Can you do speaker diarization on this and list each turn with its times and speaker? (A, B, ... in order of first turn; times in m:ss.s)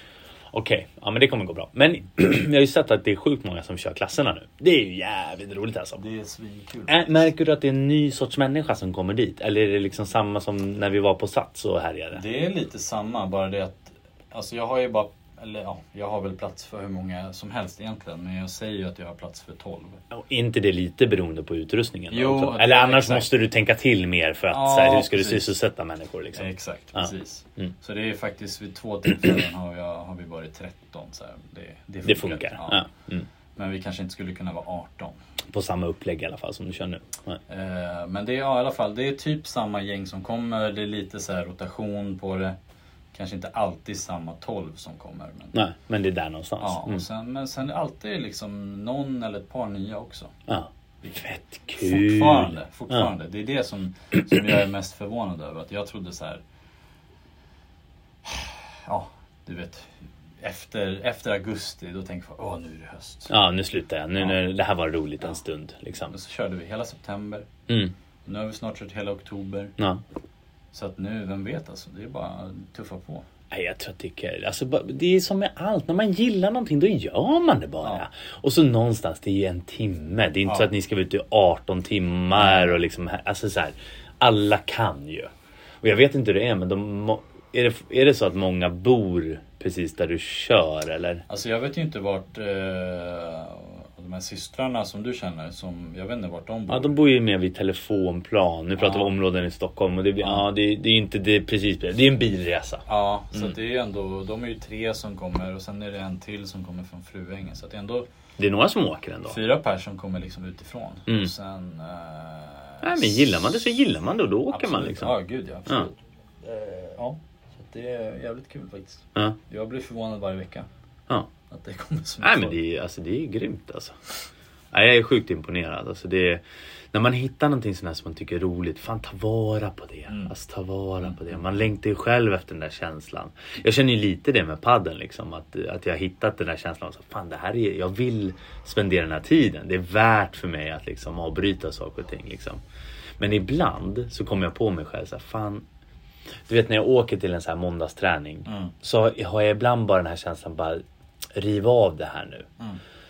0:00.5-0:06.0 A
0:06.0-0:07.3 B
0:06.9-0:12.2 A
0:12.1-0:20.0 B
0:20.1-0:27.7 A
0:22.1-0:23.3 B
0:24.5-0:25.5 B
0:26.4-0:32.9 B
0:32.0-0:33.3 A
0:33.6-0:35.2 B
0:35.5-0:37.4 A
0:37.5-0:42.6 B
0:43.1-0:45.6 B
0:45.5-0:47.0 A
0:46.6-0:50.3 B
0:50.5-0:53.1 A
0:51.0-0:56.4 B
0:58.2-1:03.3 B
1:03.3-1:06.2 A
1:06.1-1:07.5 B
1:07.7-1:07.9 A
1:08.2-1:09.7 B
1:10.7-1:13.3 B
1:13.5-1:25.3 A
1:22.4-1:22.8 B
1:25.8-1:31.2 A
1:31.3-1:37.0 B
1:36.7-1:43.5 A
1:38.8-1:39.2 B
1:40.2-1:40.5 B
1:42.9-1:48.1 B
1:48.4-1:49.4 A
1:49.3-1:53.4 B
1:52.8-1:55.2 A
1:54.5-2:00.7 B
2:01.5-2:02.6 B
2:02.2-2:04.0 A
2:04.7-2:22.6 A
2:10.1-2:10.3 B
2:11.0-2:11.4 B
2:23.2-2:25.6 A
2:26.5-2:30.8 A
2:28.5-2:28.7 B
2:31.4-2:32.5 A